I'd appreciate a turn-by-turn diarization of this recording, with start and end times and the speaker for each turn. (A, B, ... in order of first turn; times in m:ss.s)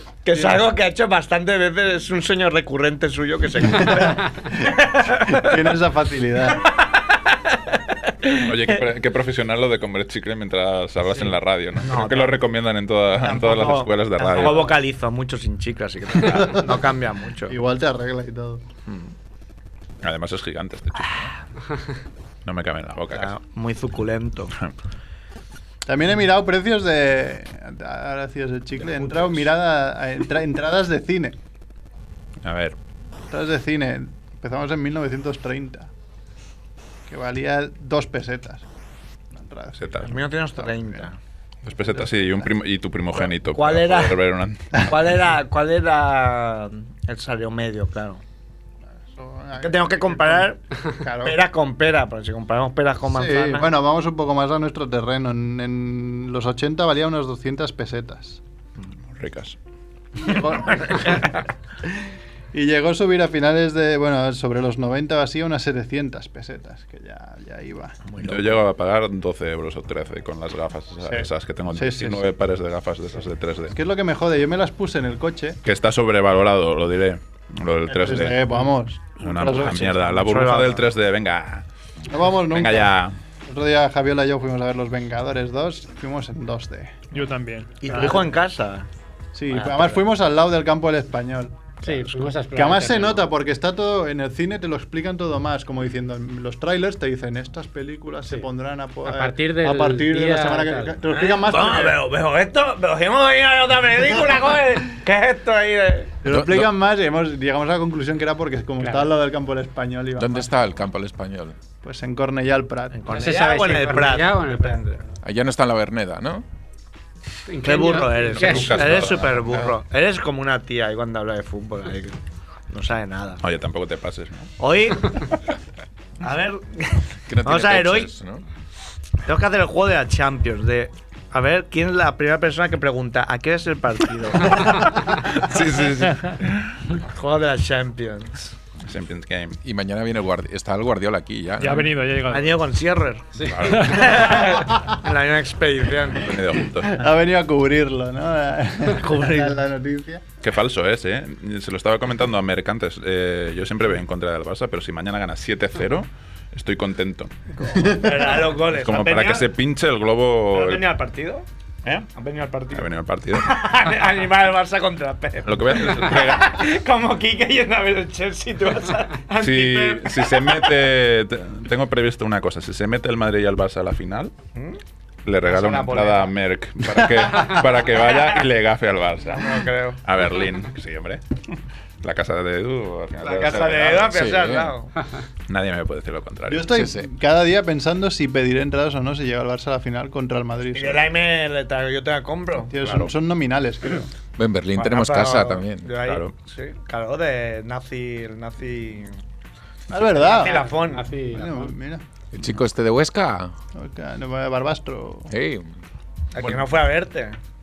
0:00.2-0:05.6 A
0:03.6-0:06.6 B
0:06.5-0:08.8 A
0:08.3-0:14.7 C
0:11.2-0:12.4 A
0:13.1-0:17.6 A
0:16.2-0:16.8 B
0:17.5-0:18.6 B
0:18.8-0:19.1 A
0:20.0-0:21.3 C
0:22.4-0:23.3 C
0:23.1-0:24.5 A
0:25.8-0:31.4 B
0:28.8-0:29.5 A
0:32.4-0:32.8 C
0:33.3-0:35.9 B
0:37.1-0:38.6 B
0:39.3-0:41.1 B
0:39.8-0:40.1 C
0:40.0-0:41.2 A
0:41.6-0:44.9 C
0:41.8-0:42.5 B
0:43.3-0:44.2 A
0:44.8-0:48.2 A
0:49.1-0:51.4 B
0:49.6-0:50.6 A
0:51.2-0:53.7 A
0:53.1-0:58.4 B
0:59.1-0:59.6 C
1:00.2-1:01.4 B
1:00.2-1:01.4 A
1:02.5-1:08.0 B
1:08.1-1:08.6 A
1:08.2-1:13.8 C
1:11.0-1:12.2 B
1:13.7-1:15.6 B
1:15.6-1:18.4 C
1:17.9-1:20.2 B
1:19.2-1:21.6 C
1:20.0-1:20.8 A
1:22.1-1:22.9 B
1:22.5-1:23.2 C
1:23.4-1:27.0 B
1:27.1-1:28.1 D
1:27.8-1:28.9 A
1:27.9-1:28.3 B
1:29.3-1:42.0 B
1:29.5-1:30.0 A
1:31.8-1:33.2 E
1:39.0-1:41.0 E
1:41.1-1:46.1 A
1:46.2-1:50.5 B
1:46.2-1:46.7 F
1:48.8-1:49.1 E
1:50.2-1:51.6 F
1:51.8-1:53.1 B
1:52.9-1:55.0 A
1:53.1-1:54.8 E
1:55.2-1:56.4 F
1:57.5-1:59.1 E
1:57.6-2:02.2 A
1:58.4-1:59.6 C
2:02.7-2:03.4 A
2:03.4-2:04.5 C
2:04.6-2:05.2 A
2:06.2-2:08.1 A
2:07.3-2:08.4 F
2:09.2-2:14.8 A
2:15.1-2:16.9 C
2:16.9-2:18.5 A
2:18.8-2:19.6 C
2:19.6-2:21.9 F
2:21.6-2:22.6 D
2:22.3-2:26.4 A
2:23.4-2:23.7 E
2:23.4-2:24.3 C
2:23.7-2:24.0 D
2:26.1-2:27.0 C
2:26.9-2:30.2 B
2:28.9-2:29.6 A
2:30.4-2:37.4 C
2:37.6-2:39.5 A
2:37.7-2:38.4 B
2:38.7-2:40.9 C
2:40.5-2:41.4 A
2:42.1-2:50.6 A
2:42.7-2:43.6 C
2:45.4-2:46.7 C
2:49.4-2:54.3 C
2:55.2-3:04.2 C
2:55.4-2:56.3 A
2:58.1-2:58.4 A
2:59.3-3:00.0 A
3:03.2-3:04.9 A
3:04.1-3:04.7 F
3:05.5-3:06.8 C
3:06.5-3:11.0 B
3:06.7-3:07.1 F
3:10.7-3:12.7 A
3:12.7-3:14.1 B
3:12.8-3:13.1 C
3:14.4-3:15.9 F
3:14.7-3:19.2 A
3:16.0-3:16.3 C
3:19.9-3:20.7 B
3:20.1-3:21.1 A
3:20.3-3:21.7 E
3:21.2-3:22.0 B
3:22.3-3:23.5 F
3:23.7-3:25.3 B
3:25.3-3:25.8 F
3:26.3-3:27.4 A